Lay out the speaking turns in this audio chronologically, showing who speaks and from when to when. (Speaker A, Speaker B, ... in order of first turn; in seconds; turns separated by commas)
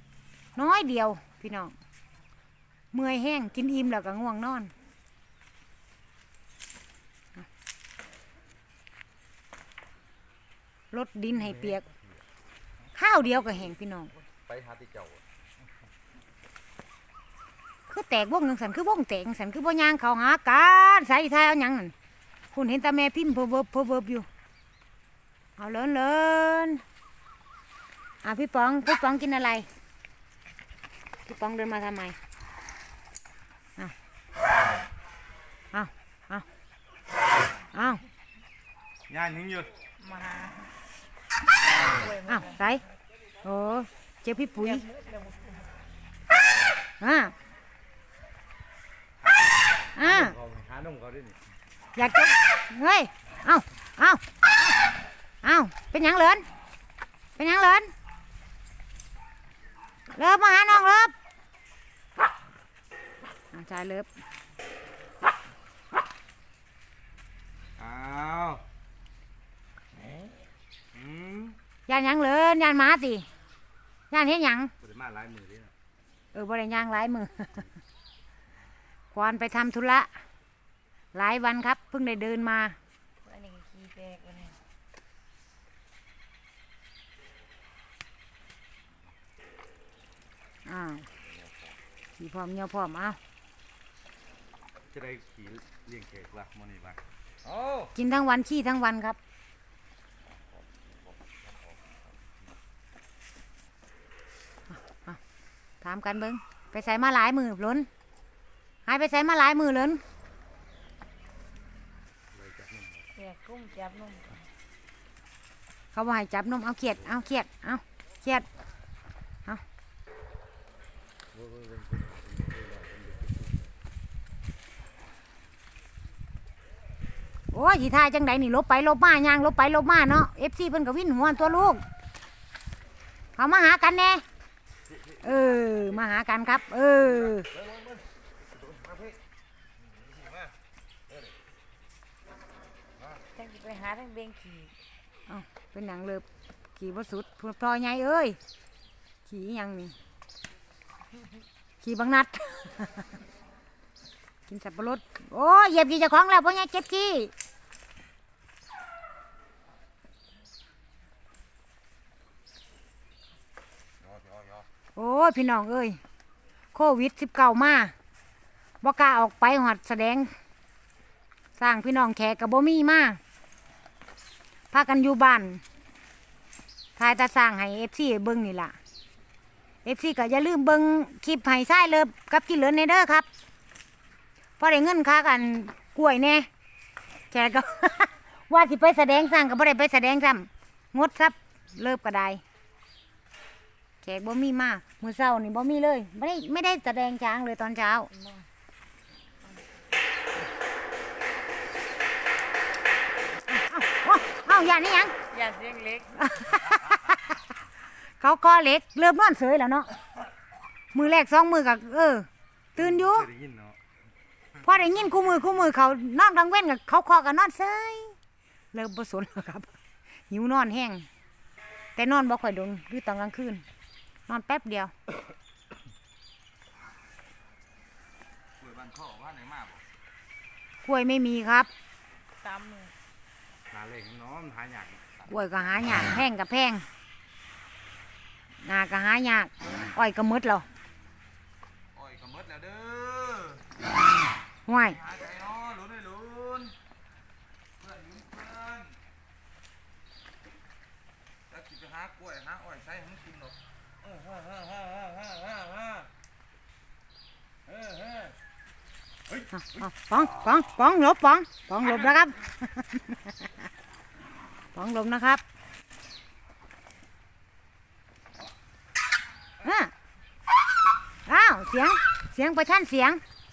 Speaker A: 0.6-1.7, Speaker A: 2.9-4.7, Speaker A: 10.9-11.9, Speaker A: 13.0-14.1, Speaker B: 14.5-15.2, Speaker A: 17.9-21.9, Speaker A: 22.5-24.3, Speaker A: 25.6-26.8, Speaker A: 28.2-29.7, Speaker A: 31.2-32.2, Speaker A: 35.7-36.5, Speaker A: 37.7-38.0, Speaker B: 39.1-39.7, Speaker C: 40.0-40.7, Speaker C: 41.8-42.6, Speaker A: 42.2-42.8, Speaker A: 43.4-44.9, Speaker C: 44.6-45.7, Speaker A: 47.0-47.3, Speaker A: 50.0-50.4, Speaker B: 50.3-51.4, Speaker A: 51.9-54.8, Speaker A: 55.4-56.5, Speaker A: 57.4-57.9, Speaker A: 60.1-61.1, Speaker A: 63.5-64.1, Speaker B: 67.8-68.6, Speaker B: 70.9-71.6, Speaker A: 71.9-73.2, Speaker A: 74.1-74.7, Speaker B: 74.8-75.7, Speaker A: 76.3-77.7, Speaker A: 79.1-80.1, Speaker A: 81.1-82.8, Speaker C: 83.2-84.6, Speaker A: 90.7-91.1, Speaker A: 92.2-93.2, Speaker B: 94.9-97.9, Speaker A: 97.9-99.2, Speaker A: 104.7-105.2, Speaker A: 105.8-107.9, Speaker A: 108.9-110.0, Speaker B: 112.3-113.0, Speaker C: 113.1-114.5, Speaker A: 115.9-118.5, Speaker B: 121.4-123.5, Speaker A: 127.5-131.8, Speaker A: 133.4-134.2, Speaker A: 135.2-137.5, Speaker B: 138.8-139.1, Speaker C: 143.3-144.7, Speaker A: 145.3-146.2, Speaker A: 146.8-148.4, Speaker A: 149.2-149.9, Speaker A: 151.8-153.1, Speaker A: 154.5-157.3, Speaker A: 164.9-166.0, Speaker A: 166.7-167.9, Speaker A: 168.8-170.3, Speaker A: 171.6-173.2, Speaker A: 174.7-175.6, Speaker A: 177.0-178.8, Speaker A: 179.8-183.2, Speaker A: 184.6-186.5, Speaker A: 187.3-192.4, Speaker A: 194.0-198.1, Speaker C: 198.1-198.5, Speaker A: 203.5-205.1, Speaker C: 205.3-206.2, Speaker A: 206.2-207.4, Speaker A: 208.2-209.9, Speaker A: 210.9-213.3, Speaker B: 213.1-213.8, Speaker A: 214.6-218.2, Speaker A: 218.7-219.7, Speaker A: 220.3-221.1, Speaker A: 221.9-223.6, Speaker A: 224.3-224.9, Speaker B: 228.6-229.8, Speaker A: 230.8-231.7, Speaker C: 232.4-232.9, Speaker B: 233.7-235.0, Speaker A: 235.3-236.8, Speaker A: 238.6-240.6, Speaker B: 241.9-243.6, Speaker A: 244.7-245.1, Speaker B: 245.1-246.7, Speaker B: 247.8-248.9, Speaker B: 251.5-253.5, Speaker B: 254.2-255.9, Speaker B: 257.7-258.3, Speaker A: 259.5-263.3, Speaker A: 264.8-265.4, Speaker A: 269.6-269.9, Speaker A: 271.2-273.2